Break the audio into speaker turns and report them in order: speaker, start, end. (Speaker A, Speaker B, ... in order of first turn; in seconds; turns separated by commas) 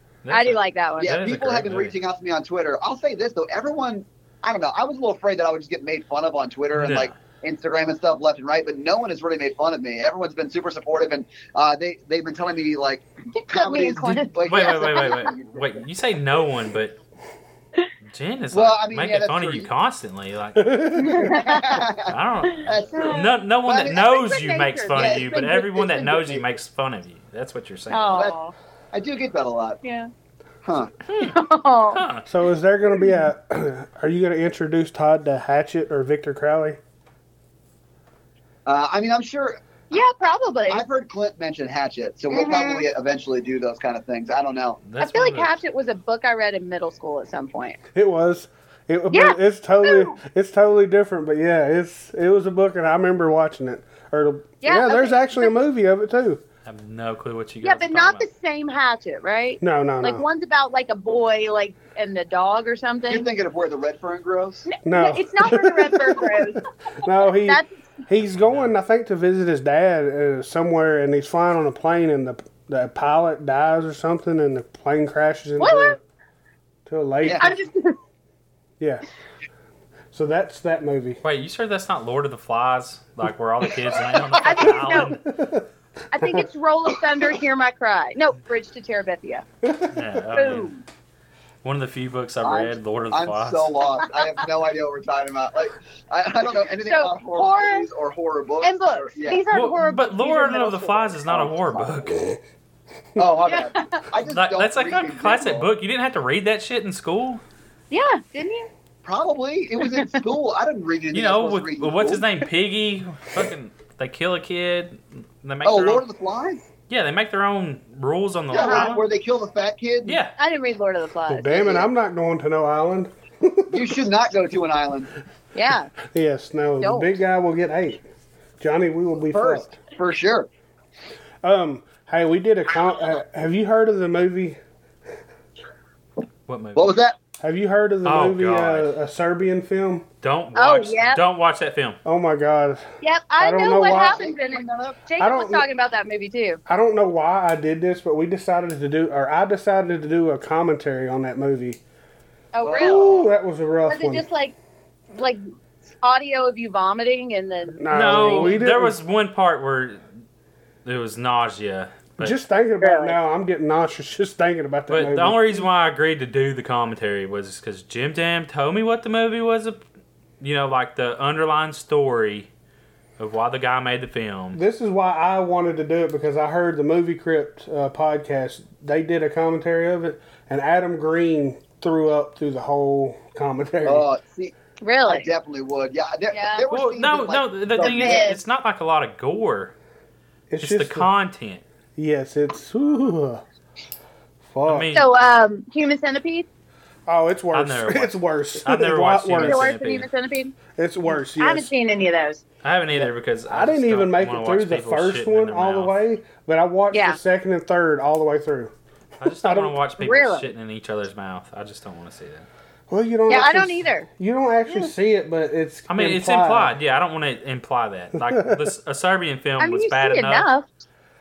Speaker A: 0.2-1.9, Speaker B: 0.3-1.1, Speaker C: 1.0-15.6, Speaker A: 6.7-7.1, Speaker B: 13.4-15.4, Speaker A: 14.4-17.0, Speaker A: 18.0-21.0, Speaker C: 18.5-19.7, Speaker D: 20.6-21.4, Speaker B: 20.9-21.8, Speaker C: 21.1-24.1, Speaker A: 22.1-28.2, Speaker B: 22.9-23.3, Speaker B: 23.9-25.5, Speaker C: 24.9-26.4, Speaker B: 27.9-28.5, Speaker C: 28.9-29.8, Speaker B: 29.8-30.1, Speaker C: 30.6-30.9, Speaker A: 31.1-31.4, Speaker B: 31.3-32.0, Speaker A: 31.9-32.3, Speaker D: 32.3-36.8, Speaker C: 38.6-39.6, Speaker B: 39.9-40.8, Speaker C: 40.7-44.8, Speaker B: 42.3-42.9, Speaker A: 44.8-45.5, Speaker B: 45.0-47.8, Speaker D: 47.9-56.4, Speaker B: 49.1-50.1, Speaker B: 54.6-55.5, Speaker A: 56.6-58.3, Speaker B: 57.6-63.3, Speaker D: 59.6-60.2, Speaker C: 63.1-64.7, Speaker B: 64.7-67.9, Speaker D: 64.8-76.0, Speaker A: 68.3-68.7, Speaker B: 75.6-76.0, Speaker D: 76.8-77.6, Speaker C: 77.2-77.5, Speaker B: 77.4-78.0, Speaker D: 80.1-81.2, Speaker A: 81.2-85.2, Speaker B: 84.4-85.2, Speaker D: 84.8-86.4, Speaker B: 86.1-89.4, Speaker D: 89.6-90.0, Speaker A: 89.9-90.7, Speaker B: 90.3-90.8, Speaker A: 91.6-93.7, Speaker C: 92.4-99.4, Speaker B: 96.7-97.9, Speaker B: 98.6-101.2, Speaker A: 99.5-102.4, Speaker C: 101.3-102.0, Speaker C: 103.2-105.7, Speaker B: 103.5-104.0, Speaker A: 104.2-107.4, Speaker B: 107.9-108.7, Speaker C: 109.0-112.2, Speaker A: 111.1-116.0, Speaker C: 115.6-116.6, Speaker A: 116.9-119.0, Speaker C: 118.5-120.2, Speaker B: 118.5-118.9, Speaker A: 120.0-120.3, Speaker B: 120.4-121.7, Speaker D: 121.3-124.0, Speaker C: 121.5-121.9, Speaker C: 123.7-125.1, Speaker B: 125.5-125.9, Speaker D: 126.1-128.0, Speaker B: 126.8-127.1, Speaker D: 128.6-129.8, Speaker C: 129.3-130.5, Speaker D: 131.4-134.6, Speaker A: 136.5-137.0, Speaker C: 136.8-137.2, Speaker D: 137.4-140.1, Speaker A: 138.0-138.9, Speaker A: 140.2-142.0, Speaker B: 140.6-141.2, Speaker D: 142.0-142.8, Speaker B: 143.0-146.6, Speaker D: 143.4-144.3, Speaker C: 143.9-145.0, Speaker D: 145.2-145.7, Speaker D: 146.7-151.8, Speaker B: 152.5-153.1, Speaker C: 152.6-153.2, Speaker D: 152.8-154.2, Speaker B: 153.9-154.5, Speaker B: 155.1-155.4, Speaker B: 156.0-158.6, Speaker D: 157.8-158.9, Speaker A: 157.9-160.0, Speaker A: 160.8-162.3, Speaker D: 162.2-165.6, Speaker B: 162.8-163.2, Speaker A: 164.9-169.8, Speaker A: 170.4-172.5, Speaker A: 173.2-174.6, Speaker D: 174.5-184.1, Speaker C: 183.8-184.5, Speaker B: 184.8-185.3, Speaker C: 185.1-188.3, Speaker B: 186.3-186.7, Speaker A: 186.7-189.7, Speaker B: 187.8-188.4, Speaker D: 190.5-191.1, Speaker A: 190.6-191.6, Speaker D: 191.9-193.4, Speaker D: 194.5-194.9, Speaker A: 194.7-195.1, Speaker B: 194.9-196.5, Speaker D: 197.1-199.7, Speaker A: 197.5-200.1, Speaker B: 199.4-202.4, Speaker D: 200.7-201.7, Speaker A: 202.6-205.9, Speaker D: 203.5-208.7, Speaker B: 206.9-207.2, Speaker A: 209.2-212.5, Speaker D: 209.4-209.8, Speaker B: 210.0-210.4, Speaker D: 212.9-216.8, Speaker B: 213.3-214.1, Speaker B: 214.7-214.9, Speaker A: 215.9-220.5, Speaker D: 218.2-218.6, Speaker B: 219.6-220.7